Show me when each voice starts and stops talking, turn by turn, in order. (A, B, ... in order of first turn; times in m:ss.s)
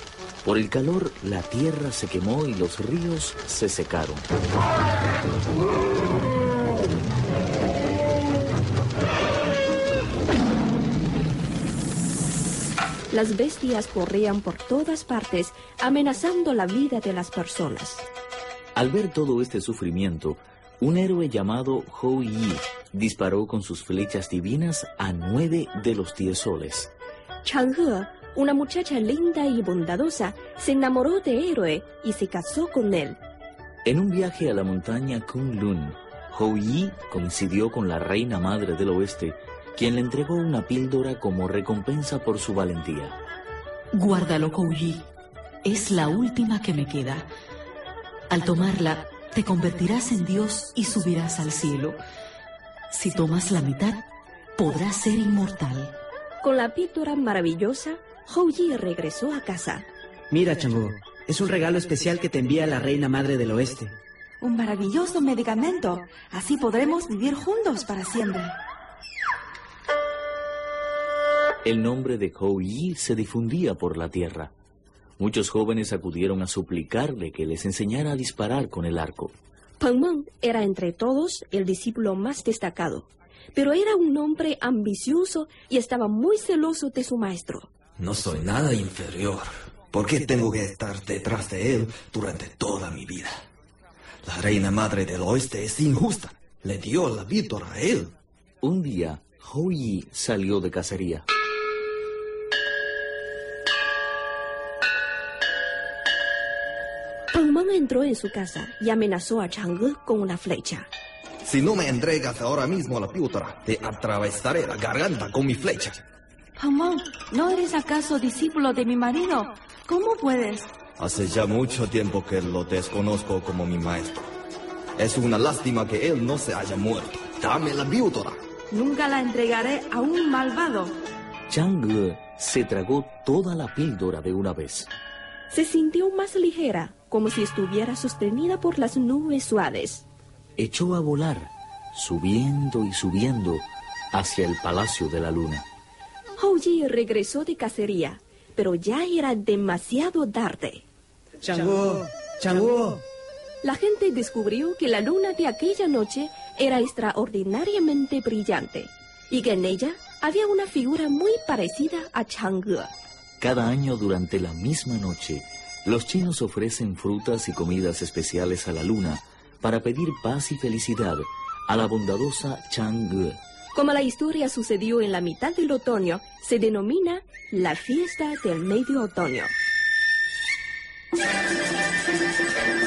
0:00.4-0:04.2 A
0:13.1-0:18.0 B
0:18.7-0:26.9 A
0:27.4-0:33.2 B
0:33.8-0:43.2 A
0:43.9-0:45.1 C
0:45.6-0:47.3 C
0:48.3-0:52.0 C
0:52.9-0:54.0 C
0:54.6-0:55.9 C
0:56.4-0:59.9 B
1:00.3-1:03.9 D
1:04.4-1:08.6 E
1:11.6-1:14.5 A
1:15.2-1:19.3 A
1:19.8-1:27.7 B
1:28.0-1:33.4 F
1:34.2-1:38.1 F
1:38.6-1:41.2 A
1:47.3-1:50.9 B
1:51.4-1:56.0 F
1:56.6-2:00.7 E
2:01.0-2:04.3 F
2:05.0-2:08.4 F
2:08.7-2:10.9 E
2:11.5-2:14.9 A
2:15.5-2:20.0 B
2:20.6-2:25.6 A
2:26.4-2:30.8 B
2:33.6-2:42.9 B
2:43.4-2:53.4 A
2:53.7-2:59.5 B